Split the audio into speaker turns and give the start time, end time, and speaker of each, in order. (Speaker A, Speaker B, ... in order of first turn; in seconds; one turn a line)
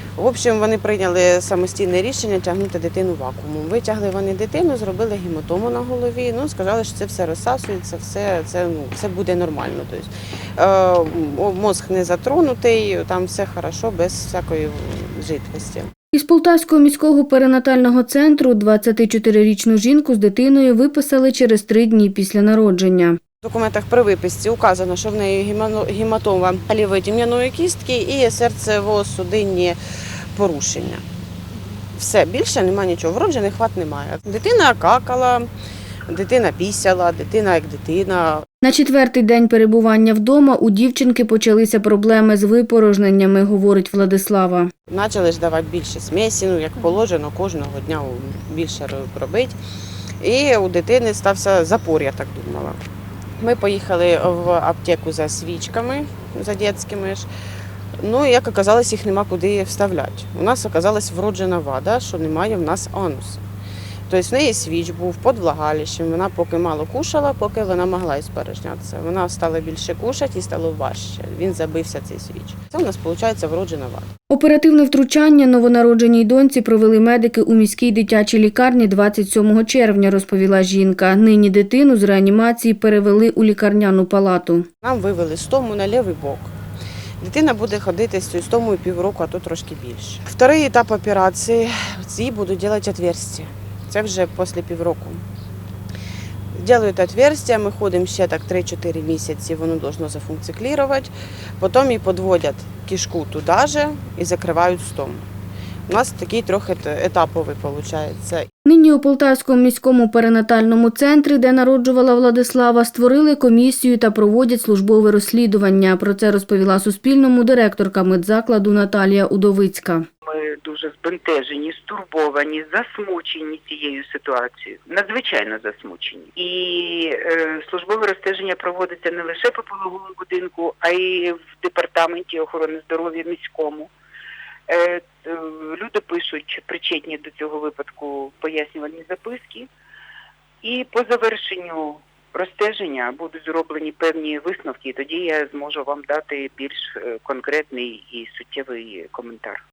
Speaker A: 0.2-15.9
Speaker B: 16.1-23.2
Speaker A: 23.4-29.8
Speaker A: 30.4-31.0
Speaker A: 31.9-35.5
Speaker A: 36.1-38.5
Speaker B: 38.6-44.7
Speaker A: 44.9-49.6
Speaker A: 50.2-52.8
Speaker A: 53.4-57.3
Speaker A: 58.0-63.4
Speaker A: 64.1-74.1
Speaker B: 74.3-84.7
Speaker A: 84.8-86.5
Speaker A: 87.2-95.2
Speaker A: 96.5-105.2
Speaker A: 105.9-108.5
Speaker B: 108.7-120.0
Speaker C: 120.2-133.9
Speaker C: 134.7-139.7
Speaker C: 140.6-149.6